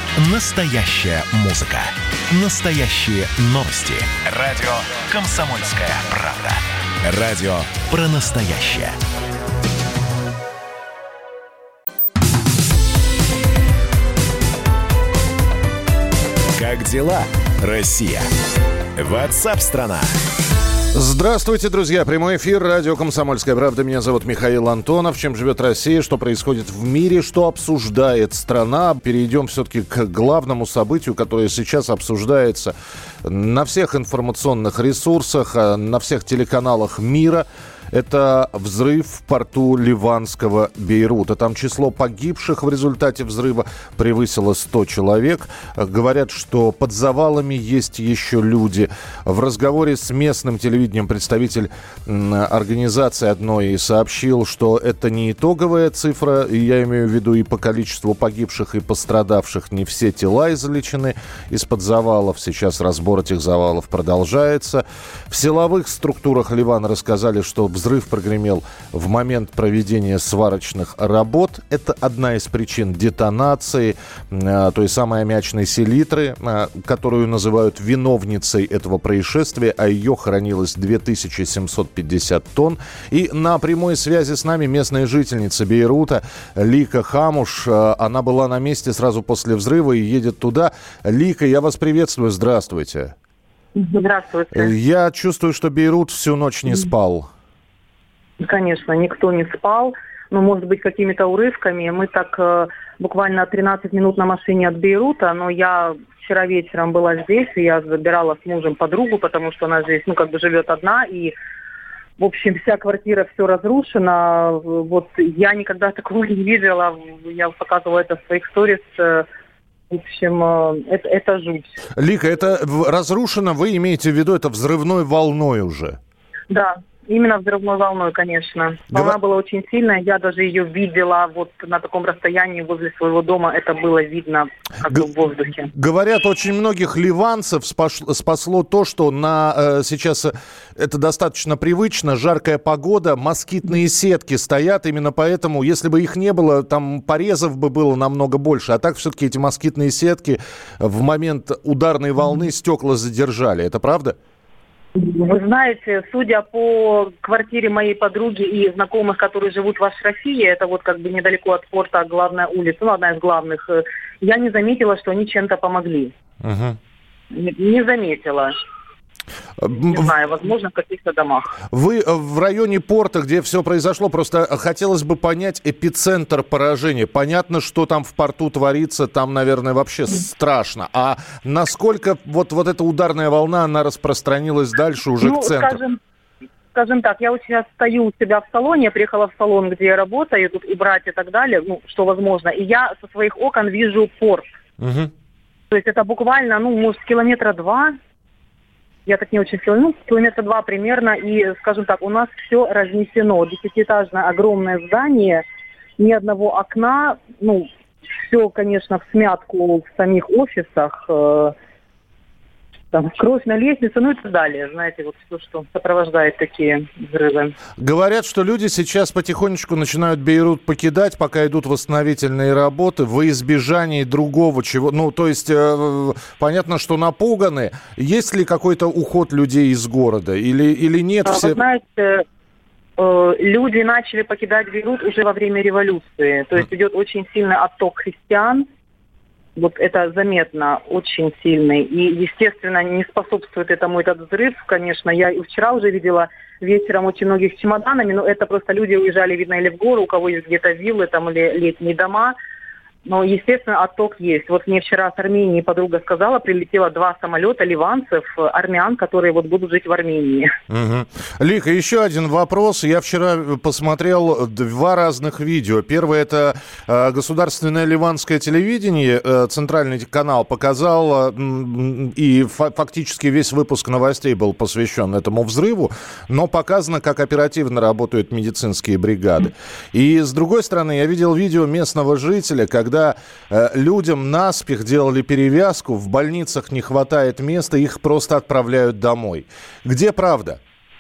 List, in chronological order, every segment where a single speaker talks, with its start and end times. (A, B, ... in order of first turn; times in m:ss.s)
0:00.2-0:09.0 A
0:16.6-0:18.3 A
0:19.0-0:20.1 A
0:20.9-1:33.1 B
1:33.8-1:34.7 C
1:34.5-1:37.3 B
1:38.4-1:51.3 C
1:52.2-1:59.3 C
1:59.9-2:01.8 C
2:02.0-2:06.0 B
2:06.5-2:15.7 C
2:15.7-2:34.2 B
2:35.0-2:46.1 C
2:46.4-2:46.8 B
2:47.3-2:48.5 C
2:49.6-2:50.1 B
2:49.7-2:51.5 C
2:51.7-3:05.8 B
3:05.2-3:06.0 C
3:06.7-3:14.5 C
3:14.8-3:15.1 B
3:15.7-3:18.0 C
3:19.1-3:25.4 C
3:26.0-3:27.7 C
3:28.2-3:31.6 C
3:32.9-3:37.6 C
3:37.8-3:51.6 B
3:51.3-3:52.2 C
3:53.0-3:58.7 C
3:59.6-4:12.4 C
4:13.1-4:20.6 C
4:20.7-4:50.6 B